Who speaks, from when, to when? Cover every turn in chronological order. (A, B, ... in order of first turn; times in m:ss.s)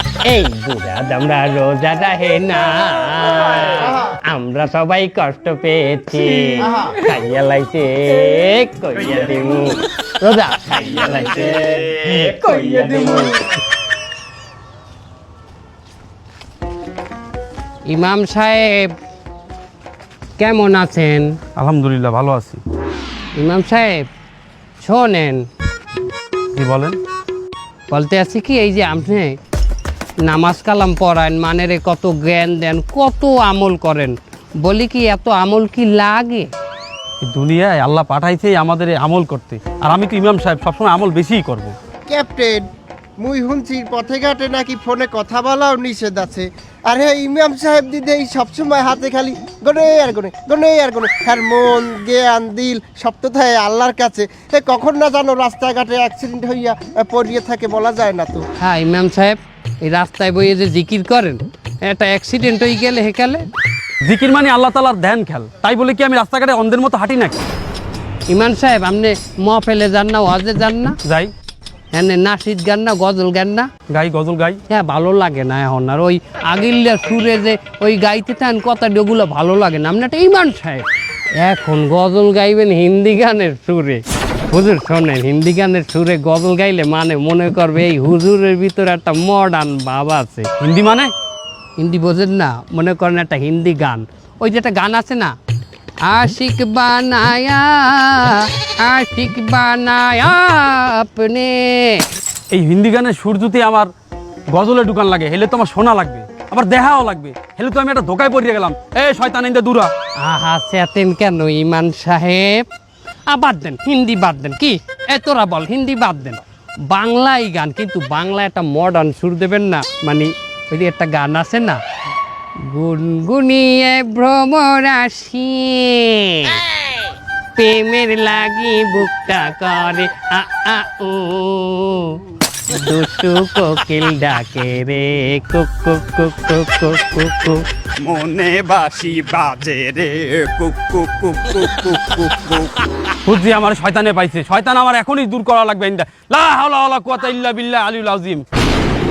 0:00.2-0:13.3 A
0:12.1-0:12.9 B
0:17.9-0:18.9 A
0:20.4-0:21.4 A
0:21.6-0:22.6 C
0:23.4-0:24.1 A
0:24.8-0:25.5 A
0:26.6-0:27.0 C
0:27.9-0:29.4 A
0:30.2-0:36.5 A
0:37.2-0:41.8 C
0:42.1-0:42.7 D
0:43.2-0:58.5 D
0:58.6-1:03.4 A
1:04.0-1:07.4 C
1:08.3-1:11.0 A
1:11.0-1:11.3 C
1:11.9-1:13.7 A
1:13.9-1:14.6 C
1:14.7-1:30.5 A
1:30.6-1:31.1 C
1:31.8-1:35.3 A
1:36.1-1:42.0 A
1:42.5-1:43.9 C
1:44.5-1:49.9 C
1:50.2-1:52.6 A
1:53.3-2:01.8 A
2:02.6-2:06.6 A
2:07.6-2:12.2 A
2:12.7-2:17.6 A
2:18.0-2:22.7 B
2:23.2-2:28.4 C